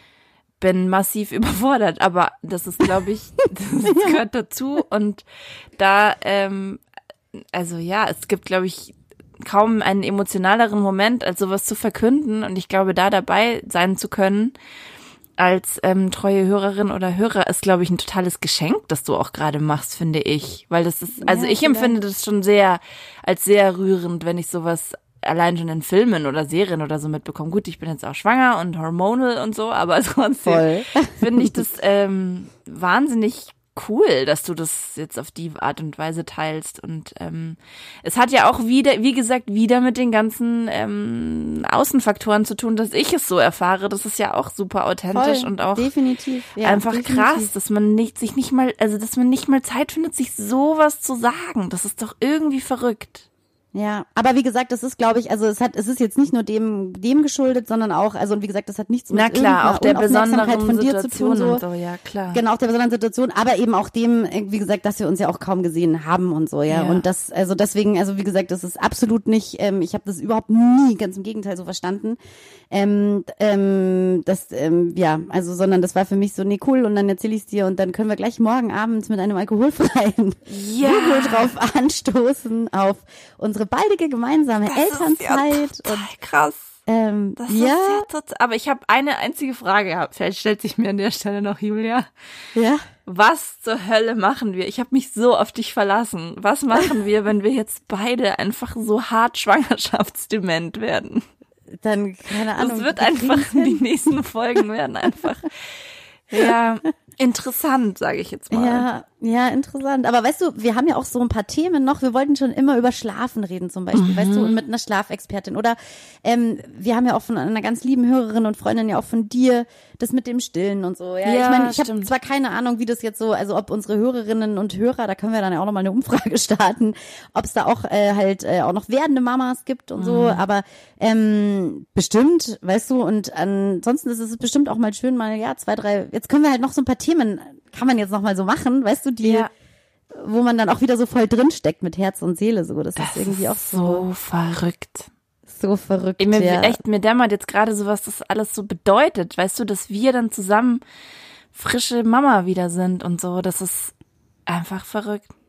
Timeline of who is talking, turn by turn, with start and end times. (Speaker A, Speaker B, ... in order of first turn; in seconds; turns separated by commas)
Speaker A: 0.6-5.2, Speaker B: 3.9-4.2, Speaker A: 5.8-6.8, Speaker A: 7.3-14.6, Speaker A: 15.4-45.9, Speaker B: 21.2-21.9, Speaker B: 30.4-31.5, Speaker B: 45.1-47.5, Speaker A: 46.6-53.2, Speaker B: 53.7-61.6, Speaker A: 59.1-62.4, Speaker B: 62.3-72.2, Speaker A: 66.7-67.0, Speaker B: 72.7-86.1, Speaker A: 80.5-81.5, Speaker A: 84.7-86.8, Speaker B: 86.9-88.1, Speaker A: 87.4-92.1, Speaker B: 92.5-92.8, Speaker A: 93.1-101.2, Speaker B: 101.8-103.8, Speaker A: 102.6-105.5, Speaker A: 106.3-108.9, Speaker B: 108.5-139.5, Speaker A: 113.9-114.6, Speaker A: 121.2-122.1, Speaker A: 130.0-130.4, Speaker A: 139.2-139.5, Speaker B: 140.2-144.0, Speaker A: 143.0-145.1, Speaker B: 145.5-146.8, Speaker A: 146.2-150.8, Speaker A: 151.5-153.9, Speaker A: 154.5-155.3